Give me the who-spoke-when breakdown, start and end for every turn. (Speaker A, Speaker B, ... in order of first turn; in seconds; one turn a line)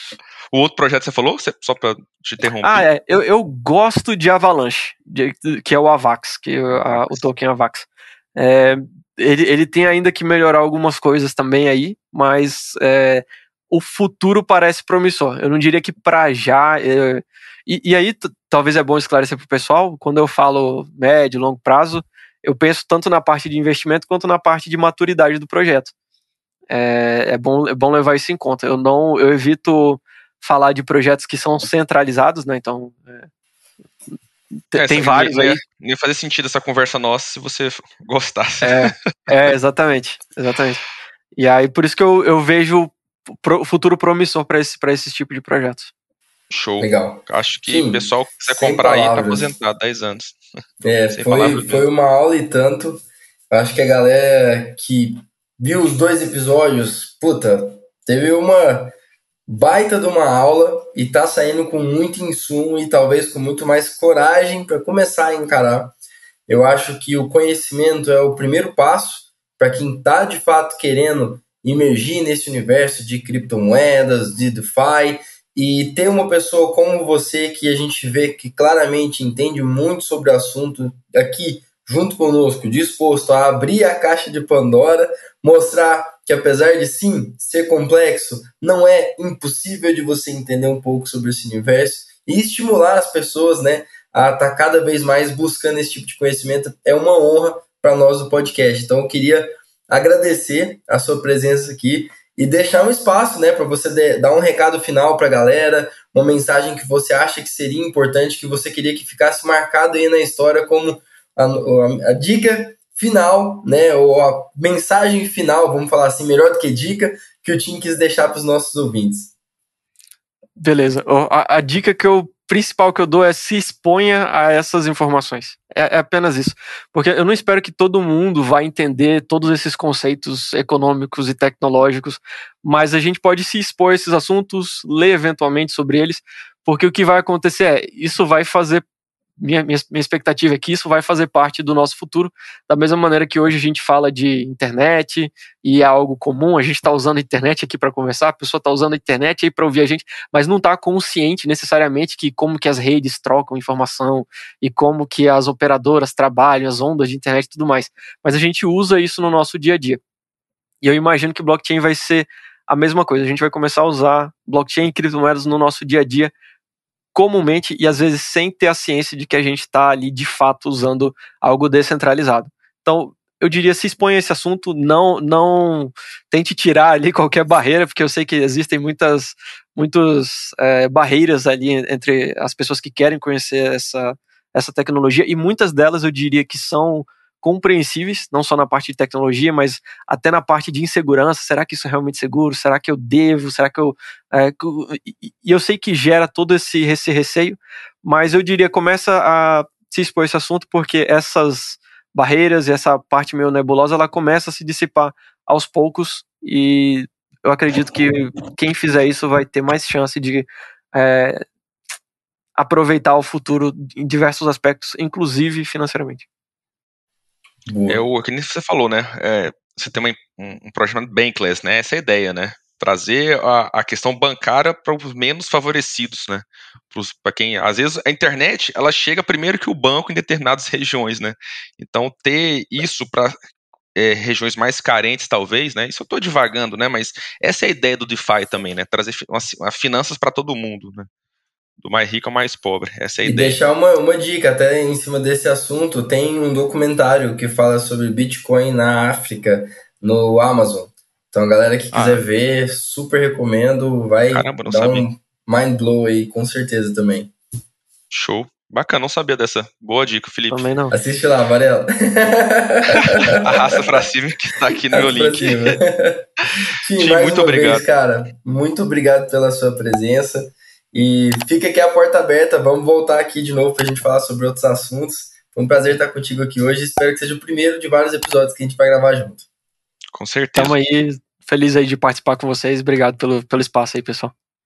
Speaker A: 0.5-2.9
Speaker B: 2.6-25.9
Speaker A: 6.8-7.2
Speaker B: 26.7-33.3
Speaker B: 34.7-35.6
Speaker A: 34.7-38.9
Speaker B: 38.6-40.8
Speaker B: 41.3-45.9
Speaker A: 46.5-50.4
Speaker C: 46.8-49.4
Speaker C: 50.8-58.9
Speaker A: 51.1-51.8
Speaker C: 59.5-65.9
Speaker C: 66.5-119.3
Speaker B: 120.6-138.8
Speaker B: 139.4-160.0
Speaker B: 160.8-166.3
Speaker B: 167.1-211.4
Speaker B: 212.6-216.2
Speaker C: 217.7-218.0
Speaker A: 217.9-233.3
Speaker A: 233.9-241.1
Speaker A: 241.8-243.6
Speaker C: 243.2-257.3
Speaker A: 251.9-252.2
Speaker A: 254.3-255.1
Speaker A: 258.1-260.7
Speaker B: 260.5-260.9
Speaker C: 260.9-263.5
Speaker A: 263.0-265.8
Speaker C: 264.9-266.3
Speaker C: 266.8-279.4
Speaker A: 267.0-267.8
Speaker A: 280.1-280.7
Speaker B: 280.5-284.3